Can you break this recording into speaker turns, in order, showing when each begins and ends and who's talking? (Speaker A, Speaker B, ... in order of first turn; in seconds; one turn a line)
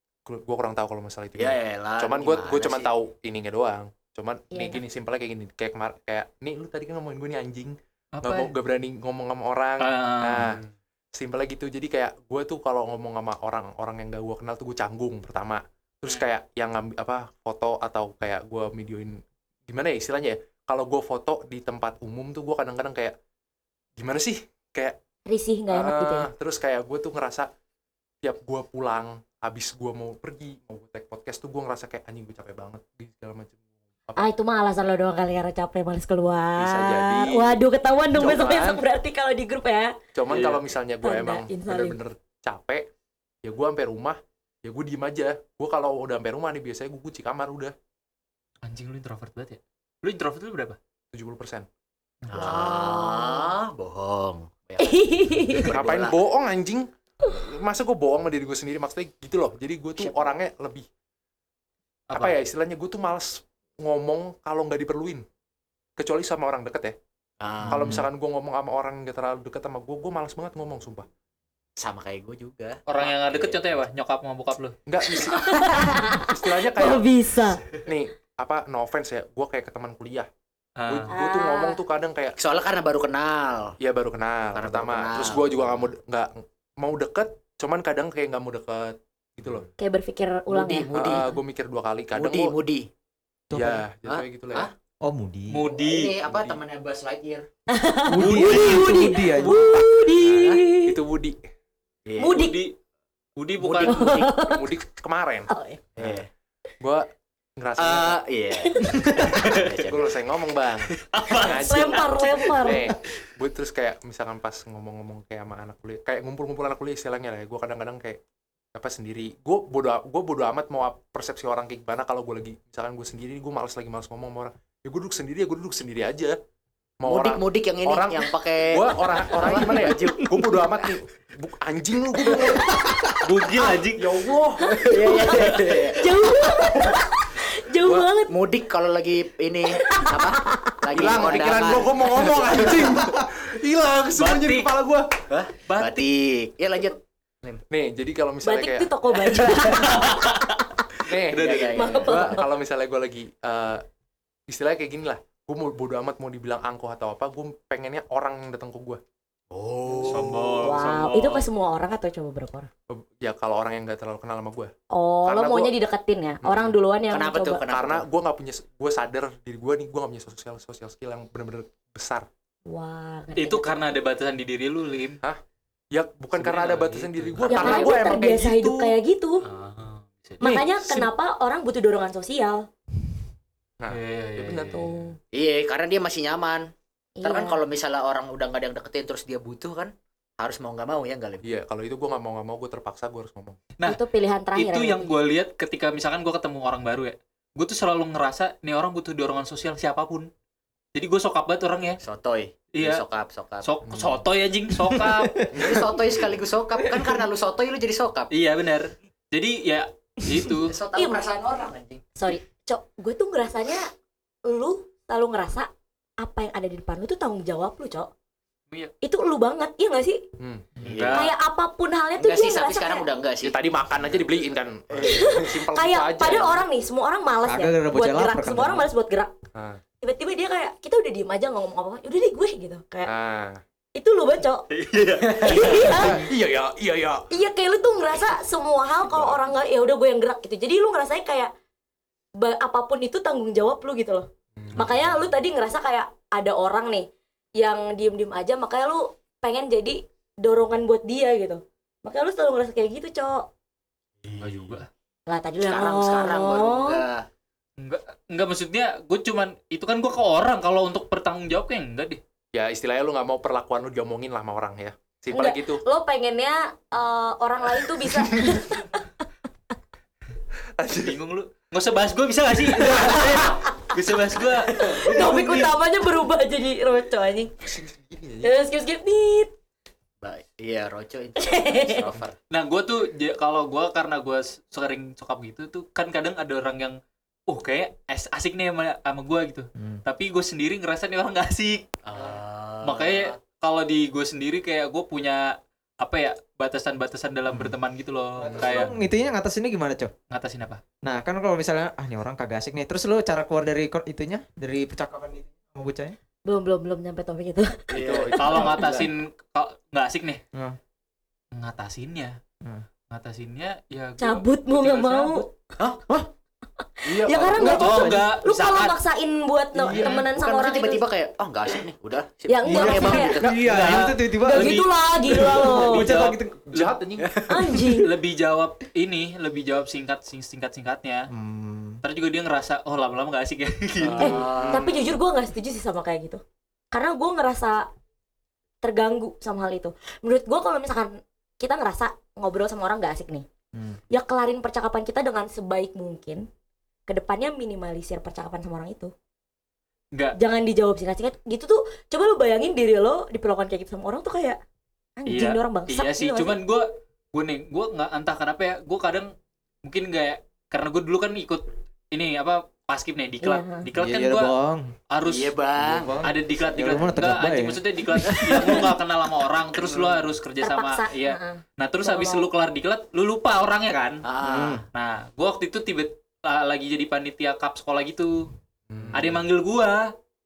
Speaker A: 0.2-23.1
Speaker B: 1.4-2.9
Speaker C: 4.5-4.8
Speaker D: 8.1-8.5
Speaker D: 9.8-10.6
Speaker A: 23.9-25.0
Speaker C: 25.3-26.3
Speaker A: 25.7-27.5
Speaker A: 28.2-33.6
Speaker C: 34.1-40.0
Speaker A: 36.6-37.6
Speaker A: 38.1-38.8
Speaker A: 40.1-42.9
Speaker D: 40.3-40.6
Speaker C: 41.0-42.0
Speaker A: 43.4-47.7
Speaker D: 48.6-50.8
Speaker A: 51.1-51.7
Speaker D: 52.2-52.6
Speaker B: 52.3-56.2
Speaker C: 52.3-53.5
Speaker C: 54.8-55.7
Speaker A: 55.7-60.9
Speaker A: 62.1-65.2
Speaker A: 66.0-67.0
Speaker B: 67.4-68.0
Speaker A: 67.7-71.1
Speaker D: 67.7-68.0
Speaker B: 71.8-73.6
Speaker D: 72.9-74.8
Speaker A: 74.8-77.1
Speaker C: 75.1-77.6
Speaker A: 77.8-80.3
Speaker D: 80.8-81.1
Speaker A: 80.9-82.3
Speaker C: 81.1-81.8
Speaker B: 82.4-83.8
Speaker A: 83.8-89.7
Speaker B: 84.5-85.9
Speaker C: 89.8-91.3
Speaker B: 90.5-91.4
Speaker A: 90.9-92.5
Speaker B: 92.1-92.9
Speaker E: 93.5-93.8
Speaker A: 93.5-94.7
Speaker B: 94.0-94.7
Speaker E: 95.0-95.6
Speaker D: 95.5-96.2
Speaker B: 95.7-97.5
Speaker A: 96.3-96.6
Speaker C: 97.7-101.0
Speaker E: 98.1-99.6
Speaker D: 98.1-100.0
Speaker A: 100.2-101.4
Speaker B: 100.3-100.6
Speaker B: 102.0-102.5
Speaker C: 102.2-102.6
Speaker D: 102.2-102.7
Speaker D: 103.4-104.0
Speaker B: 103.6-104.5
Speaker C: 103.8-104.8
Speaker A: 104.3-106.2
Speaker C: 105.5-105.8
Speaker B: 106.0-106.3
Speaker A: 106.8-107.0
Speaker A: 107.6-108.2
Speaker B: 107.8-110.2
Speaker C: 108.6-109.0
Speaker D: 109.3-109.6
Speaker A: 109.7-118.2
Speaker D: 110.9-112.6
Speaker C: 111.6-112.9
Speaker A: 118.7-126.3
Speaker A: 127.0-133.2
Speaker B: 127.0-130.3
Speaker C: 129.4-130.6
Speaker C: 132.3-132.8
Speaker D: 133.2-134.1
Speaker A: 133.9-135.0
Speaker C: 134.6-138.3
Speaker B: 134.7-136.2
Speaker A: 137.8-138.1
Speaker B: 138.3-143.0
Speaker C: 139.7-140.8
Speaker A: 140.9-145.2
Speaker D: 144.2-144.7
Speaker B: 145.3-147.6
Speaker D: 145.7-146.1
Speaker A: 147.7-148.9
Speaker C: 148.4-150.8
Speaker D: 149.3-150.6
Speaker A: 151.0-153.8
Speaker D: 151.3-151.9
Speaker B: 151.3-152.4
Speaker C: 151.7-152.5
Speaker A: 154.5-159.0
Speaker B: 159.5-160.6
Speaker A: 159.9-160.5
Speaker D: 160.1-161.5
Speaker C: 160.6-162.7
Speaker A: 162.9-164.7
Speaker C: 164.9-167.6
Speaker A: 165.2-165.7
Speaker A: 166.4-166.8
Speaker B: 167.1-168.1
Speaker A: 167.7-172.3
Speaker C: 172.7-173.8
Speaker D: 173.4-175.2
Speaker A: 175.9-178.9
Speaker D: 176.4-177.9
Speaker C: 177.5-179.4
Speaker D: 179.4-180.6
Speaker C: 180.4-182.7
Speaker A: 183.8-184.9
Speaker D: 183.9-184.9
Speaker C: 184.6-185.2
Speaker B: 185.3-186.7
Speaker C: 187.2-187.6
Speaker B: 187.2-191.4
Speaker A: 191.4-193.6
Speaker C: 193.8-195.1
Speaker D: 194.5-200.3
Speaker D: 200.9-202.0
Speaker B: 202.0-203.7
Speaker D: 202.7-203.0
Speaker D: 203.6-205.5
Speaker A: 203.8-204.2
Speaker E: 204.8-205.7
Speaker A: 205.5-205.9
Speaker B: 205.5-208.3
Speaker E: 206.8-207.2
Speaker D: 208.3-210.8
Speaker B: 210.6-212.0
Speaker C: 210.9-211.3
Speaker C: 212.2-213.9
Speaker C: 214.4-218.1
Speaker C: 219.0-220.2
Speaker A: 220.4-220.7
Speaker B: 220.8-221.3
Speaker D: 220.8-221.3
Speaker C: 221.1-223.1
Speaker B: 222.2-223.6
Speaker A: 223.4-226.6
Speaker B: 224.9-225.4
Speaker C: 225.0-229.3
Speaker E: 227.4-228.9
Speaker A: 229.5-229.8
Speaker C: 230.0-233.1
Speaker A: 233.0-233.6
Speaker C: 233.9-234.7
Speaker D: 234.7-236.0
Speaker C: 235.3-236.2
Speaker A: 235.5-237.2
Speaker C: 237.3-241.5
Speaker A: 239.1-239.4
Speaker C: 242.4-253.5
Speaker A: 244.6-245.1
Speaker B: 254.2-254.8
Speaker D: 254.4-254.9
Speaker C: 255.3-257.0
Speaker B: 255.7-257.3
Speaker D: 257.8-262.2
Speaker A: 262.5-265.8
Speaker C: 265.3-269.1
Speaker A: 268.1-268.7
Speaker A: 270.8-271.2
Speaker D: 270.9-275.8
Speaker A: 272.8-273.6
Speaker C: 274.7-277.5
Speaker A: 277.6-278.5
Speaker C: 278.4-279.5
Speaker B: 280.2-282.4
Speaker C: 281.4-282.1
Speaker D: 282.5-291.9
Speaker B: 292.0-293.4
Speaker D: 292.8-298.9
Speaker E: 298.4-300.1
Speaker B: 298.6-298.9
Speaker D: 300.3-300.8
Speaker E: 301.0-306.1
Speaker C: 306.4-308.9
Speaker A: 307.9-309.1
Speaker B: 307.9-308.4
Speaker D: 308.4-310.4
Speaker D: 311.5-312.4
Speaker D: 313.1-315.5
Speaker C: 314.2-315.5
Speaker C: 316.8-321.0
Speaker A: 317.1-317.9
Speaker E: 317.2-318.2
Speaker D: 317.5-319.0
Speaker A: 319.8-320.1
Speaker B: 319.9-323.9
Speaker C: 322.5-323.4
Speaker E: 322.6-326.5
Speaker D: 323.5-327.0
Speaker C: 324.4-326.1
Speaker A: 326.7-327.4
Speaker B: 327.2-327.8
Speaker C: 327.4-328.1
Speaker D: 327.8-331.3
Speaker E: 331.3-332.0
Speaker D: 332.0-334.7
Speaker A: 334.0-334.8
Speaker B: 334.1-335.2
Speaker C: 334.2-337.9
Speaker C: 338.8-343.4
Speaker C: 344.1-346.5
Speaker C: 347.1-349.1
Speaker C: 350.4-354.6
Speaker C: 355.2-356.6
Speaker D: 355.3-359.3
Speaker D: 359.8-364.5
Speaker C: 363.4-363.9
Speaker E: 363.9-364.9
Speaker D: 365.1-365.5
Speaker B: 365.2-366.2
Speaker E: 365.8-368.9
Speaker D: 366.2-374.2
Speaker C: 370.6-372.5
Speaker B: 374.2-374.8
Speaker E: 374.4-374.9
Speaker D: 374.9-378.5
Speaker A: 378.9-379.4
Speaker D: 379.1-380.1